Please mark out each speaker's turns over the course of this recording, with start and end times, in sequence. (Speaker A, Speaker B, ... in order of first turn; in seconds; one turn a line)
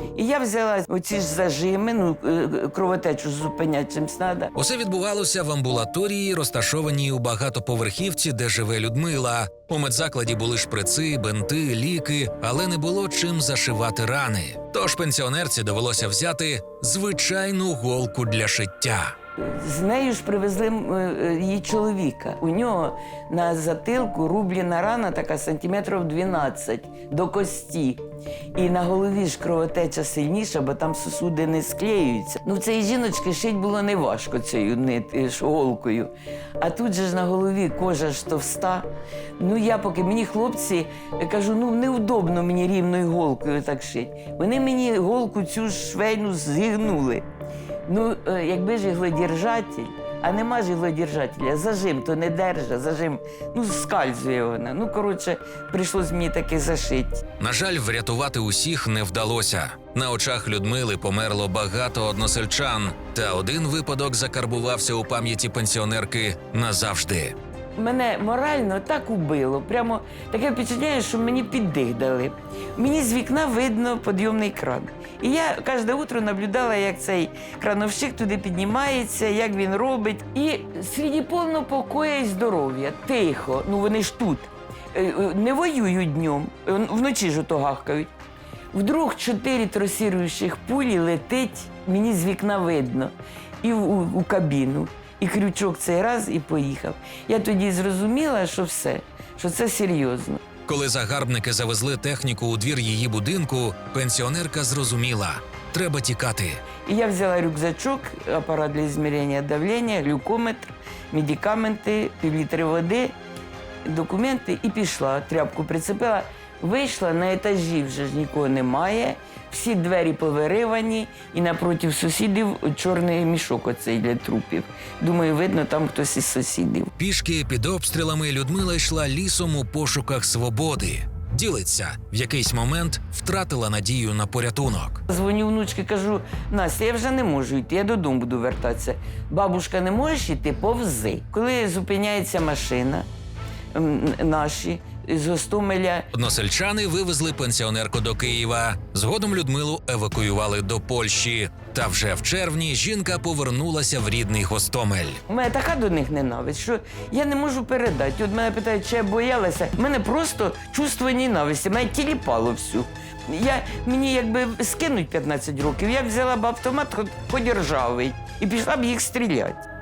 Speaker A: 0.1-4.5
Speaker B: 4.5-19.1
Speaker A: 19.4-28.0
Speaker A: 28.5-38.9
Speaker A: 39.4-47.2
Speaker A: 47.9-57.2
Speaker B: 57.4-67.3
Speaker A: 67.8-88.1
Speaker A: 88.7-100.4
Speaker B: 100.7-106.6
Speaker A: 106.8-113.2
Speaker A: 113.8-126.9
Speaker B: 127.0-135.0
Speaker A: 135.1-143.1
Speaker A: 143.7-146.1
Speaker B: 146.1-155.2
Speaker A: 155.3-169.6